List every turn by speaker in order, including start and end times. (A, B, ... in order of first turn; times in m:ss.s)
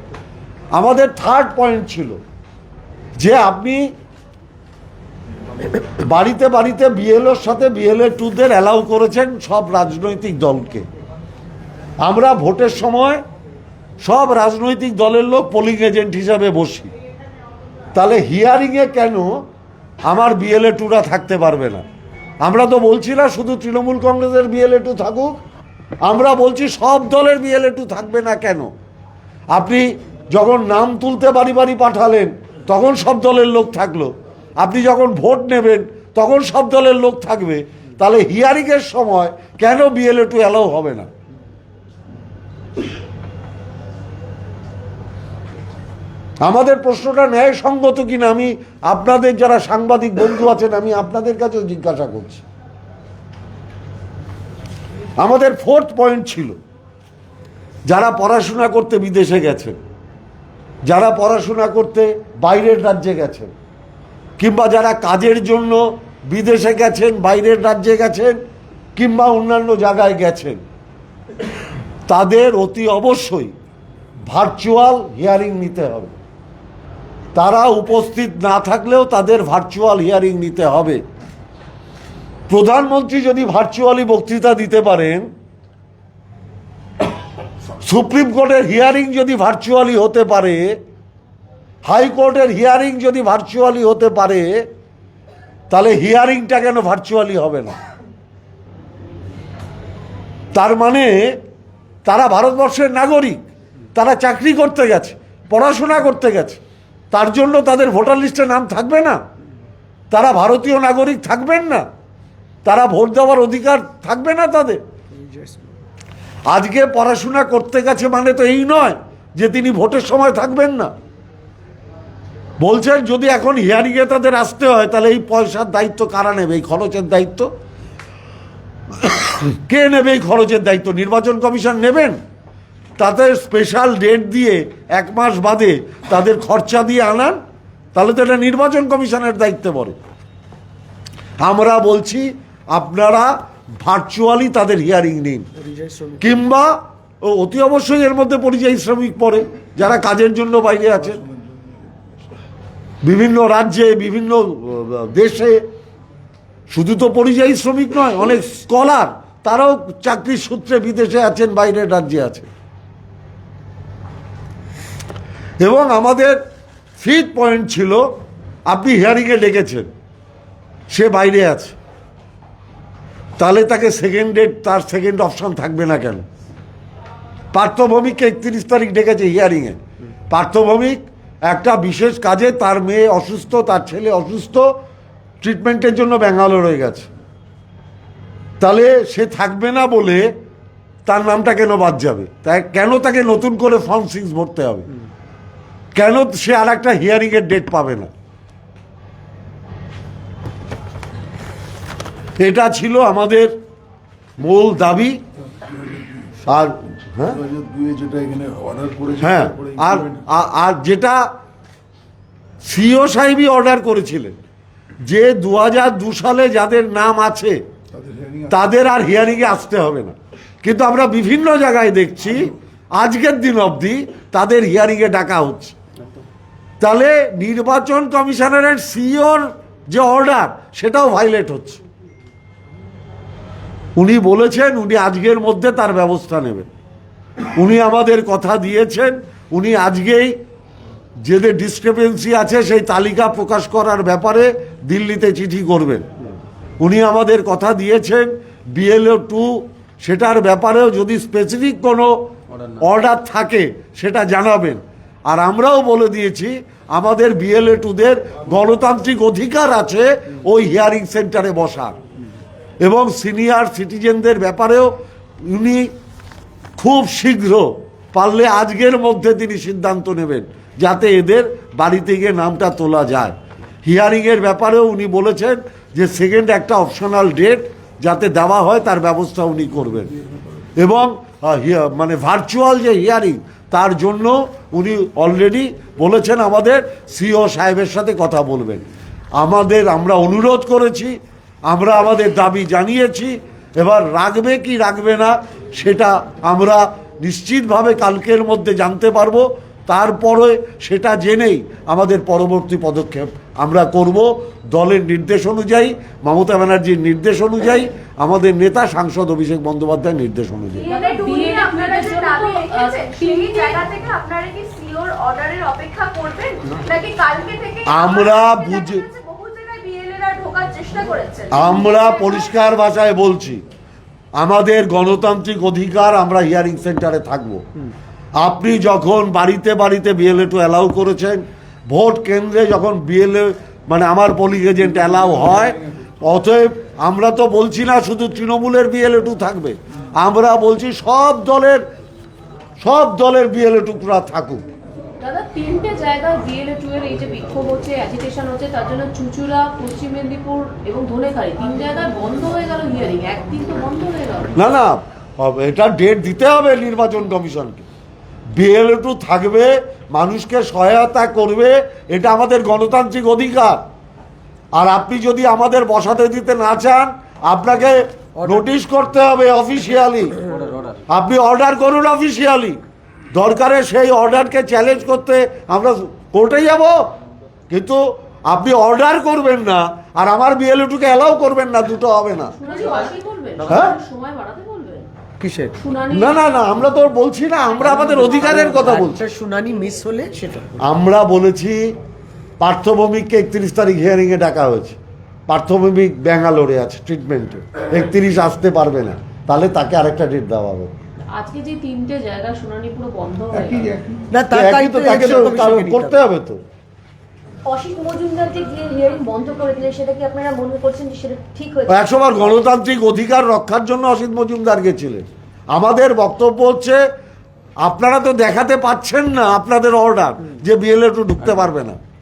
0:00.7-0:02.2 A
0:03.2-0:03.9 A
0:06.0-0:10.8 A
0:12.0-0:13.2 A
0:14.0-0:16.9 A
0:17.9-0:19.3 A
0:20.0-0:21.8 A
0:22.4-0:25.4 A
0:26.0-0:28.7 A
0:29.5-0:41.1 A
0:46.4-0:52.4 A
0:55.2-0:56.6 A
0:57.9-0:59.8 A
1:00.8-1:03.5 A
1:04.4-1:08.4 A
1:09.0-1:10.6 A
1:12.1-1:13.5 A
1:14.3-1:16.1 A
1:17.3-1:21.0 A
1:22.5-1:25.3 A
1:27.8-1:30.8 A
1:31.8-1:34.6 A
1:35.7-1:37.8 A
1:40.5-1:41.4 A
1:42.0-1:43.4 A
1:43.9-1:46.6 A
1:47.1-1:49.2 A
1:50.1-1:51.8 A
1:52.6-1:54.8 A
1:55.1-1:55.7 B
1:56.5-2:00.9 A
2:02.6-2:07.5 A
2:09.2-2:12.2 A
2:13.0-2:17.4 A
2:17.9-2:20.0 A
2:21.4-2:25.5 A
2:25.6-2:26.3 B
2:26.2-2:31.2 A
2:33.0-2:35.6 A
2:36.7-2:42.5 A
2:45.6-2:46.4 A
2:47.0-2:48.1 A
2:48.7-2:49.9 A
2:50.9-2:51.8 A
2:53.4-2:56.2 A
2:57.5-2:59.8 A
3:00.3-3:04.7 A
3:05.4-3:07.1 A
3:08.6-3:10.3 A
3:11.0-3:14.9 A
3:15.9-3:18.1 A
3:22.4-3:23.5 A
3:24.4-3:25.2 A
3:26.4-3:27.4 A
3:27.4-3:29.2 C
3:29.2-3:31.2 A
3:32.6-3:34.4 A
3:35.0-3:37.6 A
3:38.1-3:38.4 C
3:38.5-3:45.7 A
3:46.8-3:51.8 A
3:54.0-3:56.7 A
3:57.6-4:00.3 A
4:01.2-4:06.0 A
4:06.8-4:12.2 A
4:12.7-4:22.0 A
4:22.8-4:24.9 A
4:25.5-4:25.9 A
4:26.8-4:40.1 A
4:40.8-4:48.8 A
4:49.4-5:10.9 A
5:10.7-5:22.5 D
5:10.8-5:13.8 E
5:17.8-5:19.0 A
5:21.5-5:23.6 A
5:24.4-5:27.6 A
5:28.4-5:41.8 A
5:42.8-5:44.6 A
5:45.2-5:54.5 E
5:54.6-5:57.8 A
5:58.5-6:03.8 A
6:04.7-6:10.4 A
6:11.1-6:12.8 A
6:13.3-6:17.0 A
6:17.7-6:22.5 A
6:22.6-6:25.1 E
6:23.7-6:23.9 A
6:25.4-6:25.8 B
6:25.8-6:26.4 E
6:26.1-6:29.2 A
6:27.8-6:30.8 B
6:30.8-6:31.9 A
6:32.6-6:35.0 A
6:35.5-6:40.9 A
6:41.3-6:44.0 E
6:44.3-6:46.2 B
6:44.5-6:46.6 A
6:47.6-6:52.2 D
6:51.9-6:57.0 A
6:57.8-7:02.0 A